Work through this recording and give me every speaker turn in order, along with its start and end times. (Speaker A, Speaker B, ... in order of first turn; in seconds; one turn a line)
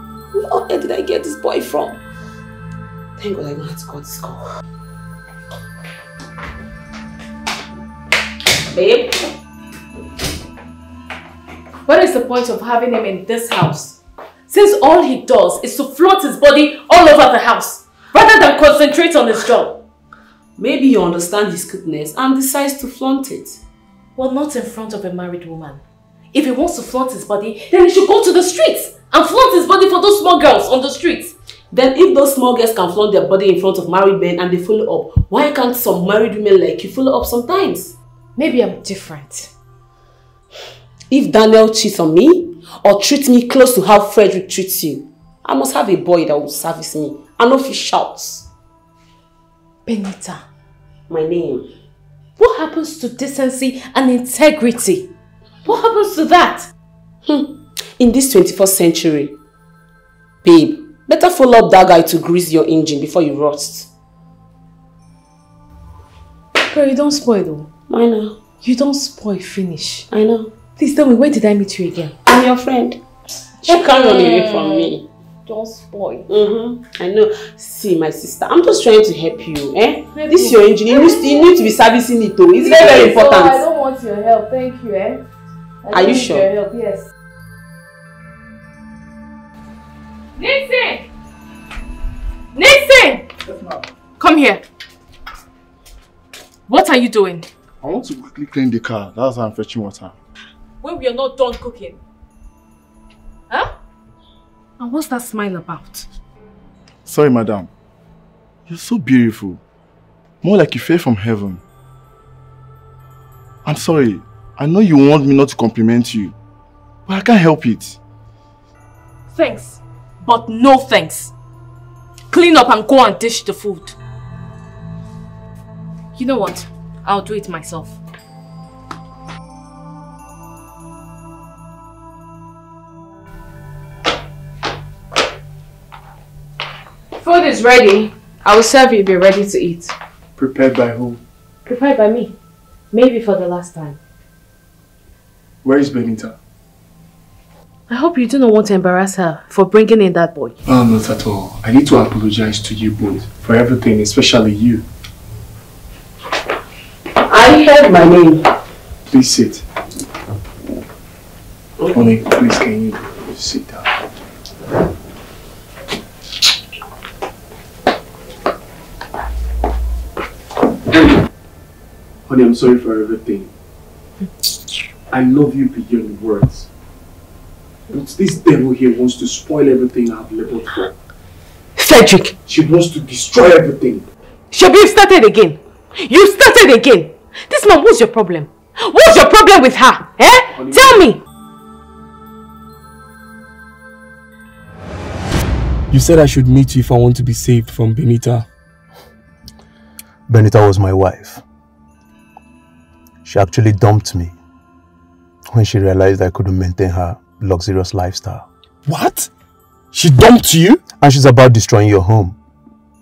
Speaker A: 0.3-2.0
Speaker A: 3.2-4.5
Speaker A: 8.7-9.2
Speaker B: 11.9-14.0
Speaker B: 14.5-19.8
Speaker A: 20.6-23.6
Speaker B: 24.1-25.8
Speaker B: 26.3-31.3
Speaker A: 31.7-37.9
Speaker B: 38.4-39.5
Speaker A: 41.1-48.5
Speaker B: 49.9-50.4
Speaker A: 51.1-51.7
Speaker B: 52.4-55.1
Speaker B: 55.6-56.7
Speaker A: 57.2-59.4
Speaker A: 60.4-63.9
Speaker B: 66.6-67.7
Speaker A: 67.9-68.4
Speaker B: 68.6-70.1
Speaker A: 70.1-70.5
Speaker B: 70.8-72.2
Speaker A: 72.2-73.0
Speaker A: 73.6-75.0
Speaker B: 73.6-74.9
Speaker B: 75.5-76.3
Speaker A: 76.3-83.6
Speaker B: 80.1-81.7
Speaker B: 82.6-85.2
Speaker B: 85.8-87.1
Speaker A: 85.9-86.5
Speaker B: 90.4-91.1
Speaker B: 92.5-93.3
Speaker C: 93.5-93.8
Speaker B: 94.2-94.6
Speaker B: 96.7-97.5
Speaker C: 97.8-100.2
Speaker B: 100.8-102.0
Speaker B: 104.8-106.1
Speaker C: 107.0-107.7
Speaker C: 108.7-109.6
Speaker C: 110.4-111.6
Speaker C: 113.6-116.3
Speaker C: 117.0-118.0
Speaker B: 119.3-121.3
Speaker B: 122.3-124.0
Speaker B: 126.1-128.0
Speaker B: 137.2-139.9
Speaker D: 140.3-141.2
Speaker B: 141.7-142.3
Speaker B: 142.9-144.0
Speaker D: 145.6-146.4
Speaker B: 147.9-150.6
Speaker D: 150.7-154.8
Speaker A: 157.3-158.5
Speaker D: 159.1-159.6
Speaker D: 161.9-163.9
Speaker D: 172.3-173.5
Speaker D: 175.1-176.7
Speaker D: 177.9-180.8
Speaker B: 181.8-182.4
Speaker D: 182.4-184.1
Speaker B: 184.5-191.2
Speaker D: 190.6-190.9
Speaker D: 195.9-198.5
Speaker E: 200.3-201.4
Speaker E: 203.2-204.3
Speaker E: 205.5-208.5
Speaker D: 208.8-209.3
Speaker D: 209.9-210.8
Speaker E: 210.9-212.4